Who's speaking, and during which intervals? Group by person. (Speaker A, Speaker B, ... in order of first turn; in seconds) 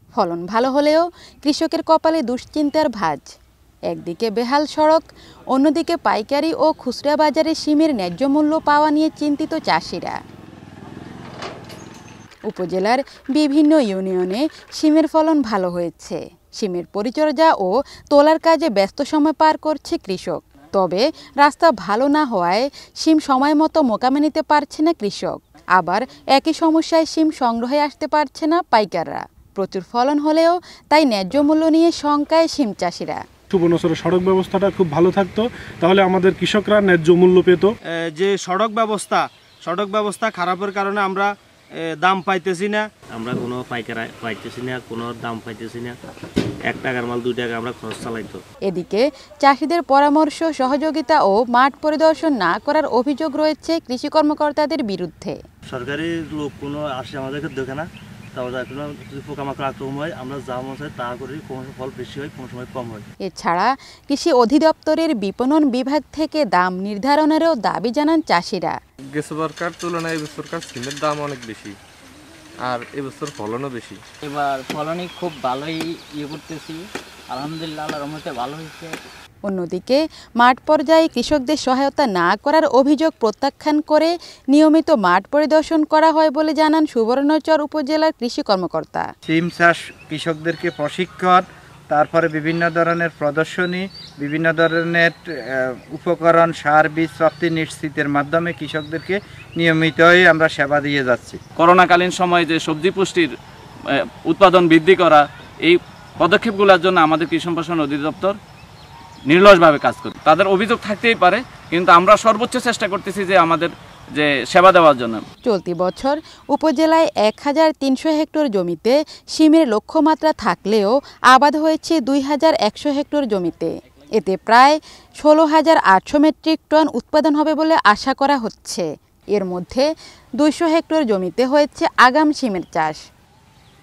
Speaker A: 0.2-3.2, 3.9-5.0, 5.5-10.2, 12.5-33.2, 48.7-55.4, 63.2-68.8, 79.5-89.1, 115.5-129.9, 130.4-133.0
Speaker B: 33.5-37.7
Speaker C: 38.0-42.9
Speaker D: 43.1-46.0, 46.7-48.4, 55.7-63.1
Speaker E: 69.1-71.8, 72.7-74.0
Speaker F: 74.2-79.0
Speaker G: 89.3-101.4
Speaker H: 101.6-103.3, 103.9-108.4, 109.3-115.2